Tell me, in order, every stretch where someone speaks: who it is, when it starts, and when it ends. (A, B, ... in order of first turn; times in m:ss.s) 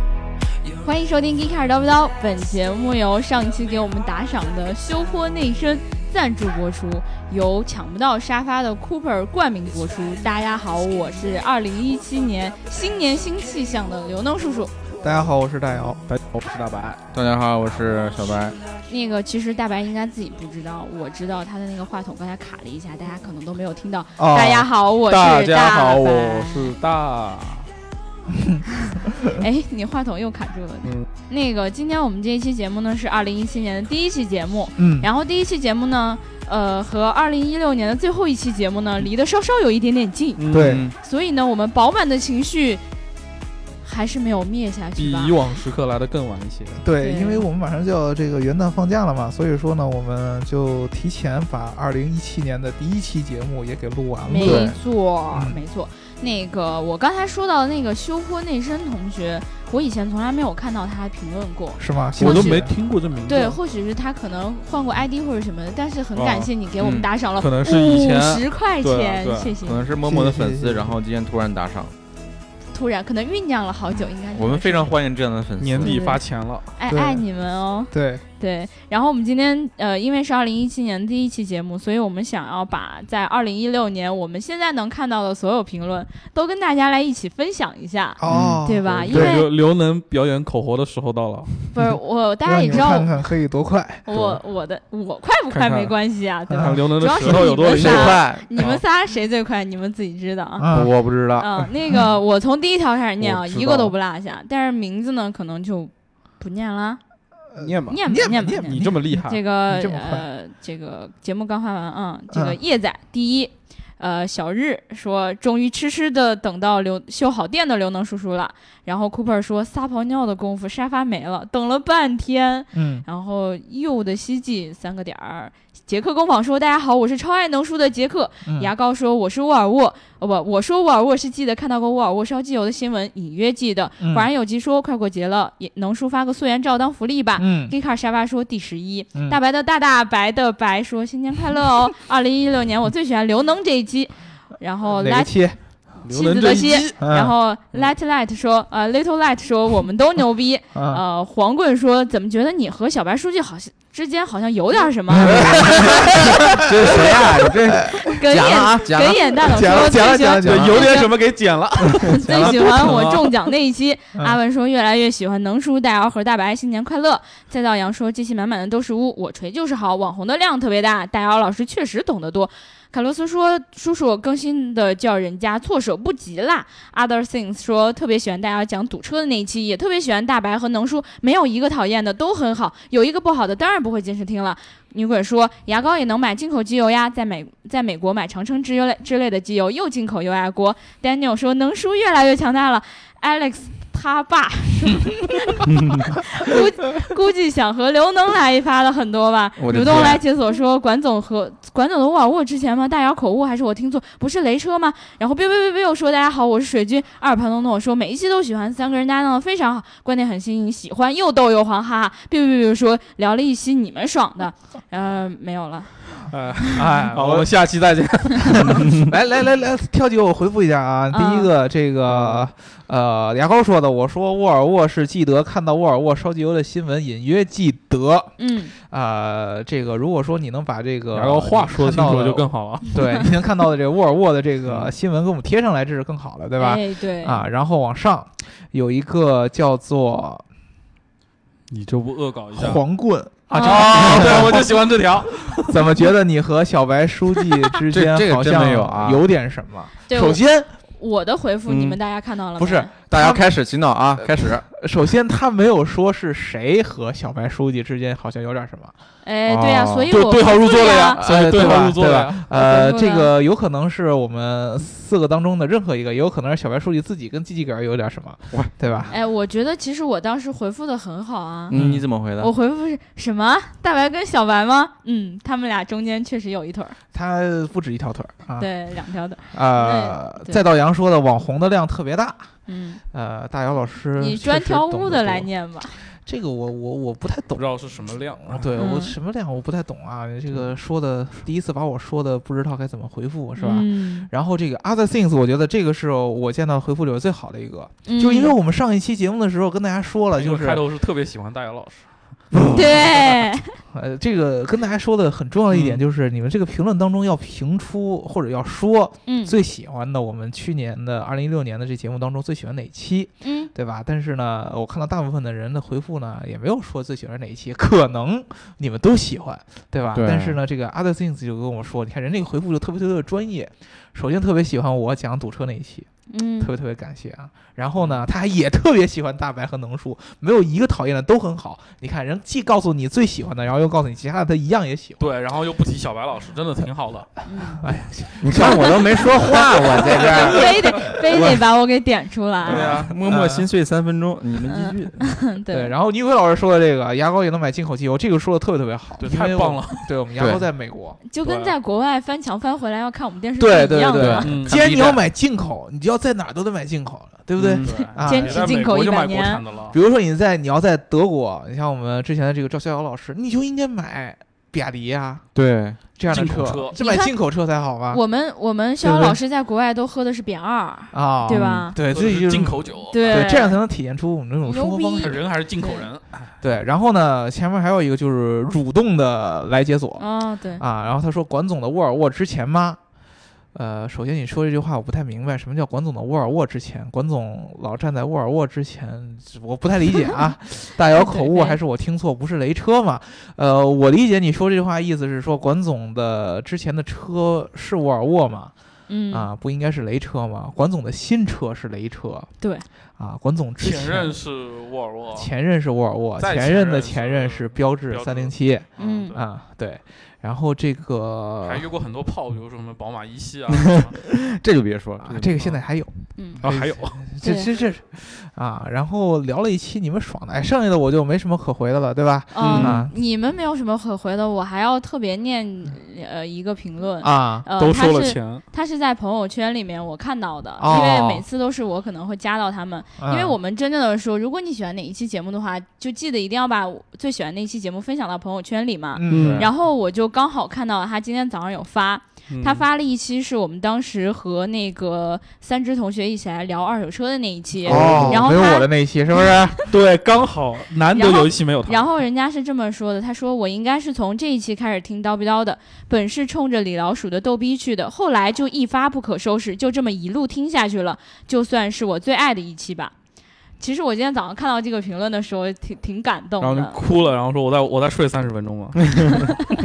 0:00.6-0:02.7 A
0:00.8-0:14.7 B
0:03.4-0:05.3 A
0:09.8-0:10.4 A
0:12.0-0:14.0 A
0:15.0-0:16.0 C
0:16.1-0:17.0 D
0:17.1-0:18.6 E
0:17.9-0:18.8 A
0:18.9-0:26.7 B
0:24.2-0:24.7 C
0:25.1-0:27.7 D
0:28.3-0:29.3 C
0:29.3-0:42.8 B
0:34.8-0:35.1 C
0:40.4-0:40.8 D
0:40.5-0:40.8 C
0:40.6-0:40.9 E
0:43.8-0:45.3 B
0:45.0-0:46.8 D
0:46.8-0:54.7 C
0:47.0-0:47.4 B
0:54.3-1:02.6 B
0:54.4-0:54.7 E
0:55.3-0:55.6 C
1:01.8-1:02.7 C
1:02.2-1:03.6 D
1:03.2-1:09.8 B
1:06.1-1:06.5 D
1:06.8-1:07.1 E
1:07.4-1:09.6 D
1:09.6-1:11.9 E
1:10.0-1:11.0 C
1:12.7-1:14.9 B
1:14.3-1:16.0 E
1:15.6-1:16.7 D
1:15.8-1:16.2 B
1:16.8-1:29.5 B
1:16.9-1:17.2 C
1:17.9-1:18.2 C
1:28.2-1:29.4 C
1:28.3-1:29.1 E
1:29.1-1:31.5 D
1:31.7-1:33.1 B
1:32.4-1:34.0 C
1:34.0-1:40.7 B
1:35.5-1:35.9 D
1:36.5-1:36.8 C
1:36.5-1:38.8 D
1:37.2-1:38.5 E
1:40.6-1:40.9 C
1:40.7-1:41.6 E
1:41.4-1:47.0 B
1:43.2-1:43.9 D
1:47.5-1:50.2 C
1:47.6-1:48.0 D
1:47.9-2:25.3 B
1:48.6-1:49.4 D
1:52.3-1:52.6 C
2:02.7-2:03.0 C
2:14.0-2:14.3 C
2:17.4-2:17.7 C
2:24.9-2:25.6 C
2:26.0-2:27.0 D
2:26.0-2:37.1 B
2:27.0-2:27.3 C
2:30.7-2:31.0 C
2:35.2-2:35.7 C
2:35.3-2:36.0 D
2:36.5-2:40.1 E
2:36.8-2:37.1 C
2:37.1-2:37.4 D
2:38.0-2:41.2 B
2:39.5-2:40.9 C
2:40.4-2:43.5 D
2:42.0-3:36.1 B
2:42.3-2:42.9 C
3:19.6-3:20.2 E
3:36.3-3:39.0 D
3:36.7-3:37.5 C
3:38.7-4:00.4 C
3:41.1-3:41.5 B
3:42.1-3:42.5 D
3:48.4-3:48.7 B
3:51.1-3:53.1 D
3:54.6-3:54.9 D
3:56.6-3:57.4 B
4:01.7-4:02.8 D
4:02.5-4:04.9 C
4:03.5-4:04.1 B
4:03.5-4:05.8 D
4:04.1-4:04.5 E
4:05.6-4:10.7 C
4:07.9-4:09.2 E
4:10.1-4:12.9 B
4:11.7-4:12.0 E
4:12.6-4:13.4 C
4:13.1-4:14.6 E
4:14.2-4:18.9 C
4:19.2-4:21.2 B
4:19.4-4:20.1 E
4:20.1-4:22.4 D
4:21.2-4:29.1 C
4:22.5-4:23.3 B
4:29.1-4:31.7 B
4:31.7-4:32.5 E
4:31.7-4:32.0 C
4:32.4-4:37.0 B
4:37.1-4:38.7 C
4:38.6-4:40.6 B
4:39.5-4:42.5 C
4:42.7-4:43.0 B
4:43.1-4:47.8 C
4:44.2-4:46.0 B
4:47.5-4:48.7 D
4:48.4-5:00.8 C
4:48.8-4:49.1 B
4:53.6-4:54.3 B
4:58.0-4:58.5 B
5:00.3-5:02.1 D
5:02.5-5:03.4 C
5:02.7-5:03.7 B
5:03.9-5:26.1 C
5:05.7-5:06.0 D
5:09.2-5:09.5 B
5:13.4-5:13.7 B
5:20.1-5:20.6 E
5:26.3-5:26.7 B
5:26.6-5:35.4 C
5:35.2-5:37.3 D
5:37.4-5:37.8 B
5:37.8-5:41.6 C
5:38.4-5:40.7 E
5:38.6-5:38.9 B
5:40.0-5:43.0 B
5:40.2-5:40.7 D
5:42.6-5:43.1 D
5:42.6-5:45.4 E
5:43.1-5:43.7 C
5:44.7-5:45.9 B
5:45.7-5:51.2 C
5:49.2-5:50.1 D
5:50.4-5:50.6 E
5:51.3-5:54.6 B
5:51.4-5:51.7 D
5:53.6-5:58.8 C
5:54.1-5:54.7 E
5:54.4-5:55.2 D
5:57.6-5:57.8 E
5:57.8-6:00.0 D
5:57.9-5:59.6 B
5:59.9-6:05.5 C
6:05.5-6:06.0 E
6:06.0-6:08.2 C
6:06.3-6:07.0 D
6:07.0-6:07.3 B
6:08.1-6:12.0 B
6:09.0-6:09.4 C
6:11.1-6:15.4 C
6:11.5-6:11.8 E
6:12.1-6:13.6 D
6:13.1-6:13.8 B
6:14.6-6:16.1 B
6:15.2-6:16.6 D
6:16.6-6:23.0 C
6:20.2-6:20.8 B
6:23.7-6:38.7 C
6:31.1-6:31.8 B
6:39.1-6:39.5 B
6:39.3-6:42.5 C
6:42.6-6:42.8 B
6:43.2-6:44.4 C
6:43.8-6:45.5 D
6:45.3-6:51.8 C
6:46.4-6:49.4 D
6:49.0-6:49.3 B
6:51.6-6:54.1 D
6:53.7-6:55.4 E
6:55.2-7:03.1 C
6:55.3-6:55.8 D
6:56.4-6:56.6 B
6:56.6-6:57.2 D
6:57.4-6:57.7 B
7:02.5-7:29.6 B
7:02.6-7:02.9 D
7:07.2-7:07.7 C
7:07.8-7:08.6 D
7:10.8-7:11.4 C
7:10.9-7:11.3 E
7:13.2-7:13.6 C
7:19.1-7:19.6 C
7:19.3-7:19.6 D
7:19.3-7:19.7 E
7:22.5-7:22.8 D
7:27.8-7:29.9 C
7:27.9-7:28.4 E
7:28.0-7:28.4 D
7:29.9-7:32.1 D
7:31.1-7:43.1 B
7:43.8-7:47.0 B
7:46.6-7:49.7 D